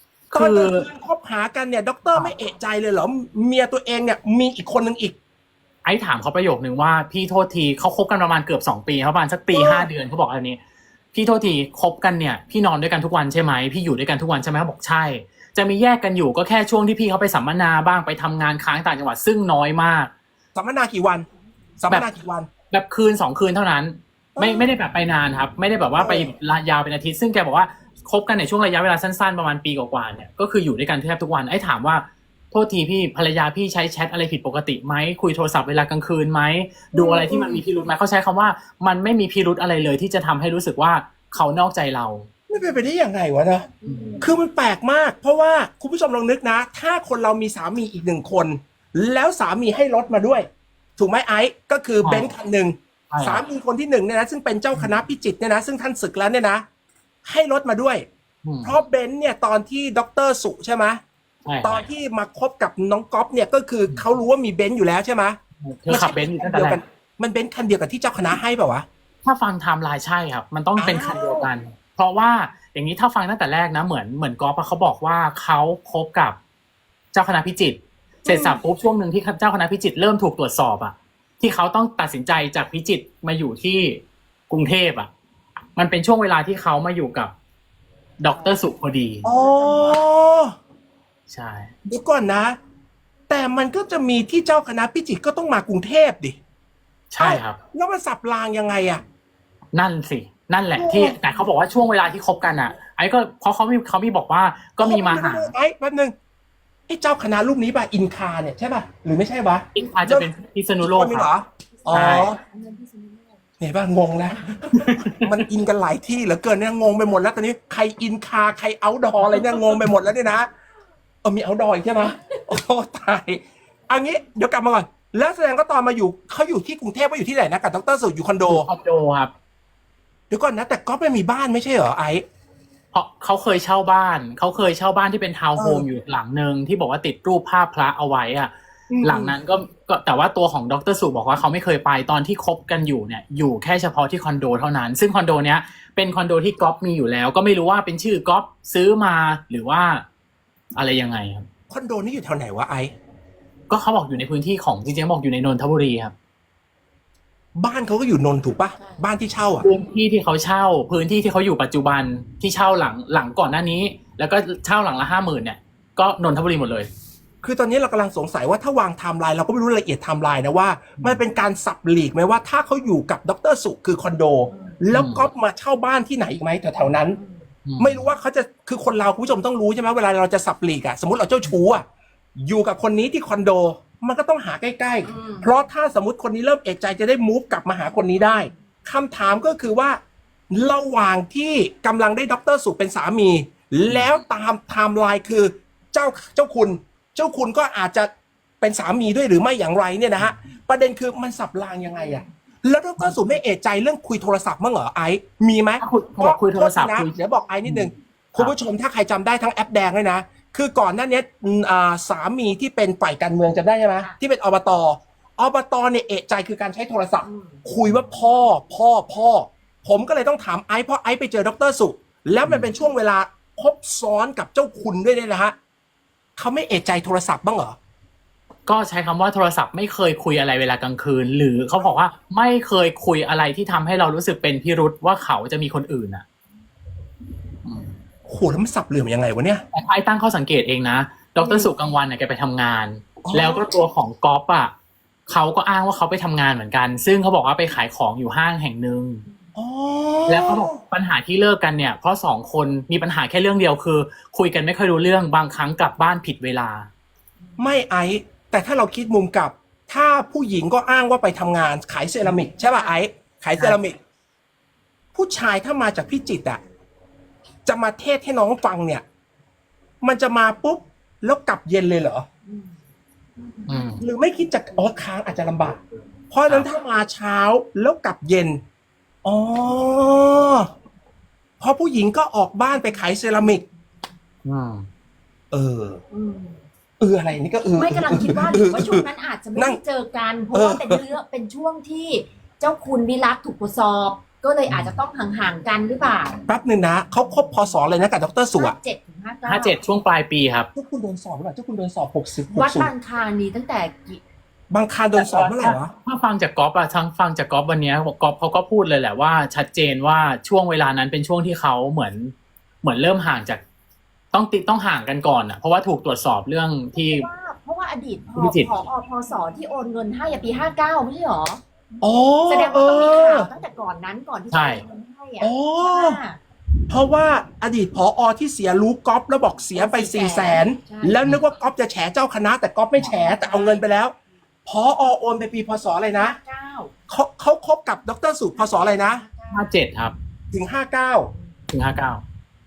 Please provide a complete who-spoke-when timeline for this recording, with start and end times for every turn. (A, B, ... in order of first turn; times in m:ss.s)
0:00.3-0:00.9 A
0:00.3-0:05.1 B
0:05.8-0:10.6 A
0:09.5-0:09.9 B
0:11.1-0:20.1 A
0:20.5-0:21.2 B
0:21.8-0:22.5 B
0:22.7-0:42.3 A
0:24.4-0:24.7 B
0:26.0-0:26.3 B
0:37.0-0:37.6 C
0:42.5-0:43.7 B
0:43.8-0:44.3 C
0:43.9-0:44.2 A
0:44.2-0:56.6 B
0:52.0-0:52.3 A
0:53.1-0:53.4 A
0:57.2-0:58.0 B
0:58.4-0:58.8 A
0:58.6-1:01.0 B
1:01.4-1:01.9 A
1:01.6-1:05.4 B
1:05.6-1:06.8 A
1:05.9-1:08.8 B
1:09.2-1:16.4 A
1:10.8-1:11.4 B
1:17.1-1:25.1 A
1:25.7-1:27.3 A
1:28.2-1:29.2 A
1:28.3-1:28.6 C
1:29.2-1:30.5 B
1:29.2-1:30.0 C
1:31.3-1:31.7 A
1:31.8-1:32.6 B
1:33.3-1:36.4 B
1:37.1-1:37.6 A
1:37.2-1:39.0 B
1:39.7-1:45.5 A
1:40.7-1:41.2 B
1:44.8-1:46.1 B
1:46.9-1:52.4 B
1:49.7-1:51.3 A
1:51.9-1:53.4 C
1:51.9-1:52.3 A
1:53.6-2:00.5 B
1:54.7-1:55.2 A
2:01.2-2:08.7 B
2:08.4-2:09.3 A
2:10.3-2:12.2 B
2:12.9-2:30.0 A
2:15.6-2:15.8 B
2:18.9-2:19.4 B
2:30.7-2:31.5 A
2:31.7-2:32.9 B
2:33.7-2:36.1 A
2:37.6-2:39.6 B
2:39.6-2:46.9 A
2:47.4-2:57.2 B
2:54.5-2:54.8 C
2:54.9-2:55.3 A
2:57.1-2:57.5 C
2:57.6-2:58.0 A
2:57.8-3:01.8 B
3:02.4-3:10.0 B
3:05.0-3:05.5 C
3:10.5-3:18.1 B
3:18.6-3:45.5 B
3:25.8-3:27.1 A
3:27.6-3:28.5 A
3:37.2-3:37.6 C
3:46.4-3:47.8 B
3:48.6-3:56.2 A
3:57.6-3:57.9 A
3:58.3-3:59.6 B
3:59.7-4:04.7 A
4:01.4-4:01.7 B
4:03.2-4:03.7 B
4:05.3-4:09.2 A
4:09.6-4:10.8 B
4:10.3-4:16.9 A
4:17.6-4:24.0 B
4:25.1-4:26.6 B
4:27.6-4:29.0 B
4:30.0-4:32.2 B
4:32.5-4:32.8 C
4:33.7-4:34.0 A
4:34.0-4:38.6 B
4:39.2-4:40.7 B
4:41.6-4:43.6 B
4:44.4-4:44.9 A
4:45.5-4:46.0 B
4:46.1-4:46.6 C
4:47.0-4:49.8 B
4:47.7-4:56.4 C
4:50.5-4:51.0 B
4:56.5-4:58.7 B
4:58.5-4:59.8 C
4:59.5-5:00.7 A
5:00.7-5:02.9 B
5:02.5-5:04.2 C
5:04.7-5:05.9 B
5:05.2-5:13.6 A
5:14.3-5:17.3 A
5:17.0-5:21.6 C
5:18.4-5:18.7 A
5:22.0-5:23.5 B
5:22.5-5:26.4 C
5:24.5-5:24.8 A
5:25.4-5:26.2 B
5:26.9-5:34.1 B
5:29.7-5:31.2 C
5:33.1-5:33.8 C
5:34.6-5:36.4 B
5:36.1-5:36.9 C
5:37.1-5:39.2 B
5:38.5-5:39.6 C
5:39.5-5:40.1 A
5:40.5-5:41.3 B
5:41.7-5:42.2 A